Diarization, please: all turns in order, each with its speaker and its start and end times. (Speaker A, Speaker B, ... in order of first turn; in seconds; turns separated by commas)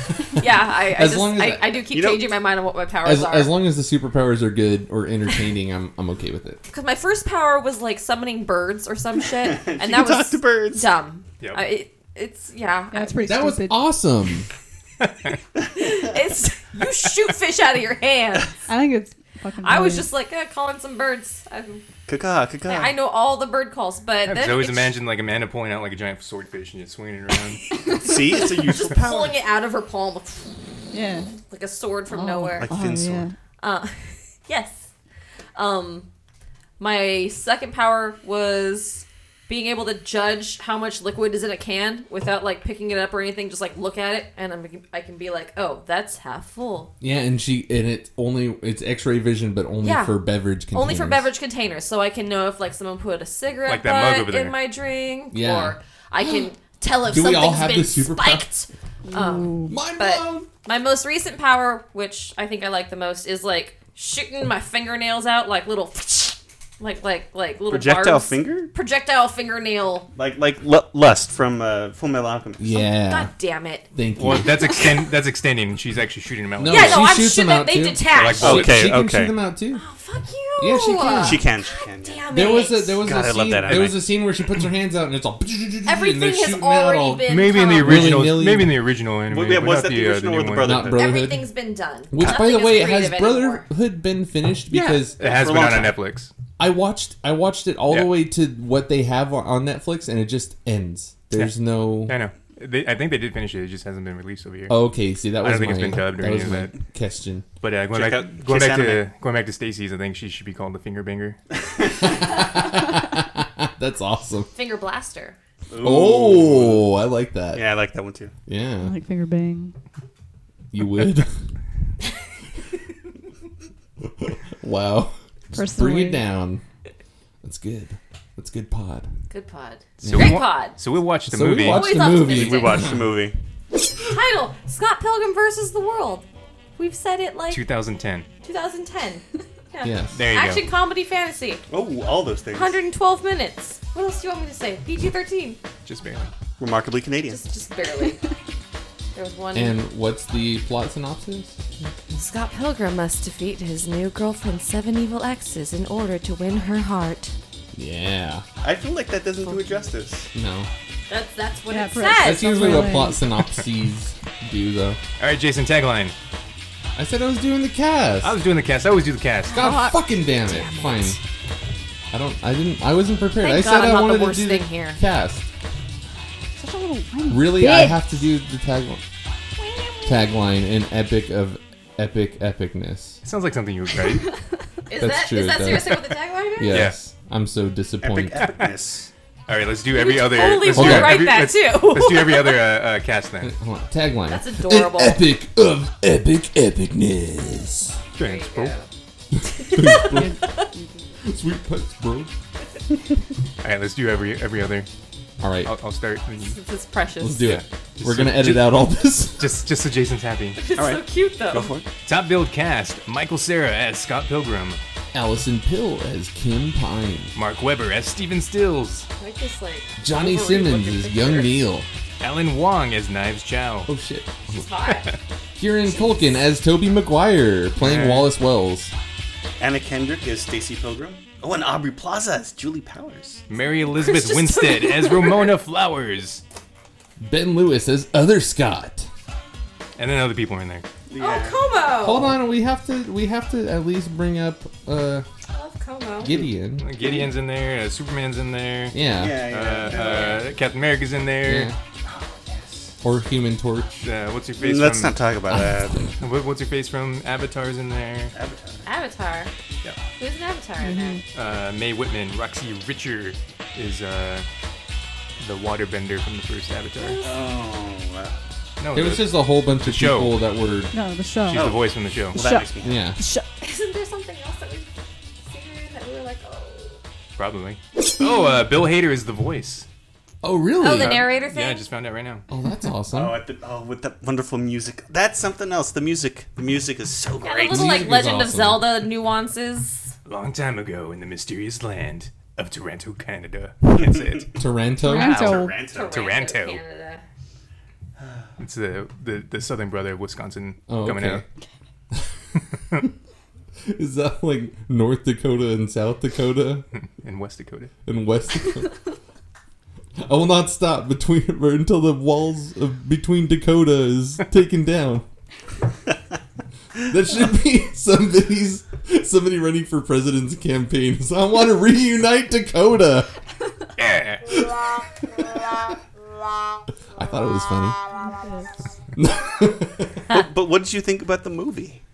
Speaker A: 0.3-3.6, Speaker B: 0.4-1.8, Speaker C: 1.9-2.3, Speaker B: 3.0-6.6, Speaker A: 6.7-13.2, Speaker C: 9.4-10.9, Speaker D: 12.9-13.8, Speaker B: 13.3-14.5, Speaker E: 15.0-15.4, Speaker A: 15.8-18.6, Speaker D: 18.7-20.1, Speaker A: 19.6-21.9, Speaker C: 22.1-22.9, Speaker A: 22.6-25.0, Speaker E: 24.3-27.6, Speaker A: 27.9-30.5, Speaker C: 27.9-29.4, Speaker D: 30.9-31.4, Speaker A: 31.5-32.7, Speaker D: 32.1-33.4, Speaker C: 32.6-33.3, Speaker A: 33.6-34.9, Speaker A: 35.5-36.1, Speaker A: 36.8-46.9, Speaker B: 47.0-51.3, Speaker A: 49.8-70.1, Speaker E: 53.7-54.6, Speaker B: 55.3-55.8, Speaker B: 57.1-58.5, Speaker D: 59.1-59.8, Speaker B: 59.7-60.5, Speaker C: 67.7-68.7, Speaker C: 70.2-72.8, Speaker B: 72.6-73.3, Speaker A: 72.7-73.9, Speaker B: 73.9-74.6, Speaker E: 74.2-77.1, Speaker B: 76.6-79.8, Speaker A: 76.7-78.6, Speaker E: 78.1-78.8, Speaker C: 78.4-79.3, Speaker A: 79.7-83.1, Speaker B: 80.6-81.5, Speaker C: 81.2-82.3, Speaker B: 82.3-88.8, Speaker C: 83.0-84.1, Speaker E: 83.7-84.0, Speaker A: 85.8-88.2, Speaker E: 87.3-90.9, Speaker C: 89.3-91.1, Speaker B: 90.6-91.5, Speaker A: 90.9-93.7, Speaker B: 92.1-95.2, Speaker C: 94.7-96.0, Speaker E: 95.2-96.3, Speaker B: 96.6-102.2, Speaker E: 101.3-104.8, Speaker B: 104.7-107.5, Speaker E: 105.4-106.8, Speaker E: 107.6-111.4, Speaker C: 107.9-109.1, Speaker B: 112.0-114.5, Speaker A: 114.5-115.4, Speaker C: 115.7-116.9, Speaker B: 115.8-117.6, Speaker C: 117.5-118.3, Speaker B: 118.5-119.0, Speaker D: 118.8-119.7, Speaker B: 120.7-121.3, Speaker B: 124.0-126.6, Speaker D: 125.5-126.2, Speaker B: 127.4-129.1, Speaker A: 129.3-130.8, Speaker B: 130.0-130.5, Speaker E: 130.0-131.9, Speaker B: 131.3-133.1, Speaker A: 131.6-132.8, Speaker C: 132.0-133.4, Speaker A: 134.0-136.2, Speaker A: 136.8-137.7, Speaker E: 137.5-138.3, Speaker A: 138.4-141.6, Speaker B: 139.8-140.2, Speaker E: 140.1-140.7, Speaker C: 141.7-142.8, Speaker A: 142.5-145.6, Speaker E: 145.8-146.3, Speaker C: 146.6-147.4, Speaker A: 147.3-148.2, Speaker A: 149.1-149.8, Speaker B: 149.5-151.6, Speaker A: 152.1-157.3, Speaker B: 157.7-158.5, Speaker C: 158.6-160.3, Speaker B: 160.3-160.7, Speaker A: 161.1-162.8, Speaker D: 161.7-163.2, Speaker B: 162.2-165.0, Speaker E: 165.2-166.1, Speaker B: 167.0-168.4, Speaker E: 168.2-169.6, Speaker B: 169.5-171.2, Speaker D: 169.5-170.0, Speaker A: 170.5-171.2, Speaker B: 172.1-175.5, Speaker A: 173.4-175.0, Speaker D: 176.6-178.0, Speaker B: 177.3-179.0, Speaker A: 179.6-180.3, Speaker B: 180.1-183.2, Speaker E: 183.2-184.3, Speaker A: 184.9-186.9, Speaker B: 185.0-188.4, Speaker E: 186.7-187.0, Speaker C: 188.0-189.1, Speaker E: 188.4-188.7, Speaker E: 189.5-193.5, Speaker A: 189.9-192.6, Speaker B: 190.7-191.3, Speaker B: 193.4-198.0, Speaker A: 194.3-195.3, Speaker E: 198.2-198.7, Speaker A: 198.2-198.9, Speaker B: 199.3-200.4, Speaker A: 199.6-200.7, Speaker D: 199.9-201.1, Speaker B: 201.2-202.3, Speaker E: 203.6-204.9, Speaker B: 205.4-205.7, Speaker E: 205.7-206.6, Speaker A: 206.4-207.6, Speaker B: 207.2-209.6, Speaker E: 207.4-208.9, Speaker E: 209.4-210.6, Speaker A: 210.6-211.8, Speaker C: 210.8-211.9, Speaker E: 212.1-214.8, Speaker B: 215.1-217.3, Speaker E: 217.3-219.1, Speaker A: 219.2-221.6, Speaker B: 220.0-221.9, Speaker E: 222.2-223.9, Speaker B: 223.9-224.6, Speaker A: 224.5-225.1, Speaker E: 224.9-225.2, Speaker B: 225.6-228.9, Speaker A: 225.9-226.2, Speaker E: 227.8-228.3, Speaker C: 229.6-233.4, Speaker E: 233.5-236.4, Speaker A: 233.9-235.4, Speaker B: 237.2-239.1, Speaker E: 240.0-240.9, Speaker C: 241.1-241.6, Speaker A: 241.2-242.4, Speaker B: 242.0-245.3, Speaker A: 245.5-246.3, Speaker B: 246.2-246.9, Speaker C: 246.3-247.3, Speaker E: 246.8-251.7, Speaker B: 248.9-249.4, Speaker C: 249.1-250.5, Speaker A: 249.8-250.4, Speaker B: 251.4-251.8, Speaker C: 252.0-253.0, Speaker B: 253.0-254.1, Speaker E: 254.0-255.2, Speaker C: 254.6-256.1, Speaker B: 255.5-256.1, Speaker E: 256.2-258.4, Speaker C: 258.3-258.9, Speaker A: 258.8-259.5, Speaker A: 260.2-261.2, Speaker D: 260.8-261.2, Speaker E: 261.3-264.5, Speaker E: 265.4-267.2, Speaker A: 267.0-267.4, Speaker C: 267.2-268.4, Speaker E: 268.8-270.4, Speaker B: 268.9-270.9, Speaker D: 270.9-271.7, Speaker E: 271.5-272.4, Speaker C: 271.5-273.0, Speaker D: 272.3-273.5, Speaker B: 272.8-273.2, Speaker A: 273.6-274.9, Speaker A: 275.4-277.0, Speaker E: 277.4-279.9, Speaker B: 280.4-281.3, Speaker A: 280.8-281.8, Speaker E: 280.9-282.4, Speaker B: 282.5-283.4, Speaker C: 283.1-288.1, Speaker A: 287.4-290.1, Speaker B: 287.7-288.9, Speaker E: 290.3-294.6, Speaker C: 294.0-294.4, Speaker B: 294.6-295.4, Speaker D: 295.0-295.8, Speaker E: 295.1-296.8, Speaker C: 295.3-296.1, Speaker A: 295.8-297.2, Speaker E: 298.6-301.4, Speaker B: 300.9-301.4, Speaker B: 303.9-306.9, Speaker E: 306.9-307.9, Speaker B: 308.1-308.9, Speaker B: 310.2-315.3, Speaker B: 317.0-323.3, Speaker E: 324.0-324.6, Speaker B: 327.2-328.0, Speaker D: 328.2-328.7, Speaker B: 329.2-330.2, Speaker C: 330.3-332.0